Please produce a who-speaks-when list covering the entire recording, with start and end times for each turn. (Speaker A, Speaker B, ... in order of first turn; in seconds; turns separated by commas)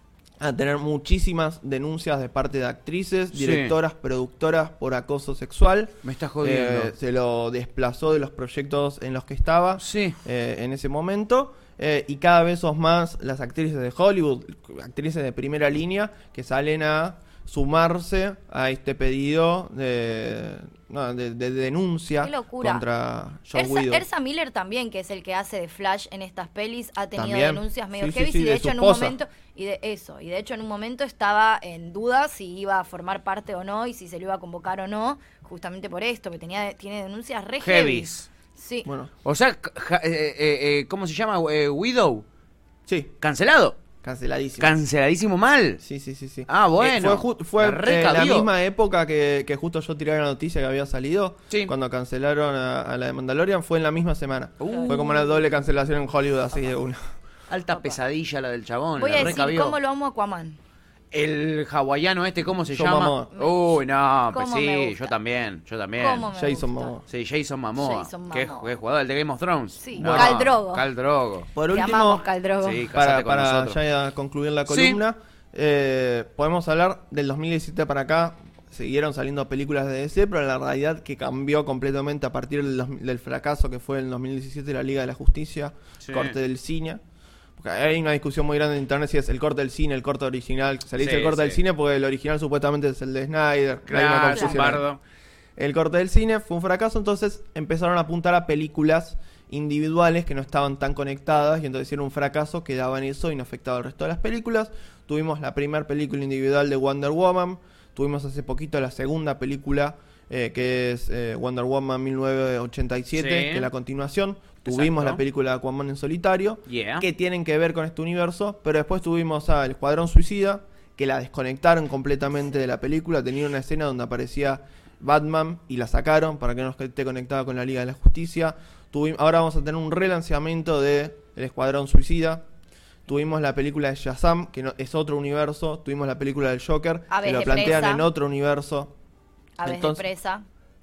Speaker A: 0.4-24.0, Speaker B: 3.3-3.8, Speaker B: 6.0-6.9, Speaker B: 9.8-10.2, Speaker C: 22.2-22.8, Speaker C: 23.5-38.9, Speaker A: 27.1-29.1, Speaker B: 37.6-38.3, Speaker A: 38.8-39.1, Speaker B: 39.2-42.2, Speaker A: 42.9-43.1, Speaker B: 43.2-43.8, Speaker A: 44.0-44.7, Speaker B: 44.6-45.8, Speaker A: 45.8-57.0, Speaker B: 46.5-48.5, Speaker B: 54.6-55.0, Speaker C: 54.6-55.3, Speaker B: 57.5-59.8, Speaker C: 57.7-58.0, Speaker C: 59.0-60.6, Speaker B: 61.1-66.3, Speaker A: 62.7-63.3, Speaker C: 63.4-65.2, Speaker C: 66.0-66.9, Speaker A: 66.3-67.0, Speaker B: 67.1-71.5, Speaker C: 67.8-68.7, Speaker C: 69.8-70.8, Speaker A: 70.0-70.5, Speaker A: 71.5-72.2, Speaker C: 71.7-72.9, Speaker B: 72.6-73.8, Speaker A: 72.9-87.0, Speaker B: 74.7-75.0, Speaker B: 86.0-86.3, Speaker A: 87.6-94.8, Speaker B: 91.0-91.6, Speaker B: 93.9-95.0, Speaker C: 94.3-94.6, Speaker A: 95.6-132.4, Speaker B: 113.1-113.7, Speaker B: 114.7-115.2, Speaker B: 116.7-117.0, Speaker A: 133.1-138.9, Speaker C: 137.1-138.1, Speaker C: 139.6-140.4, Speaker A: 139.6-140.0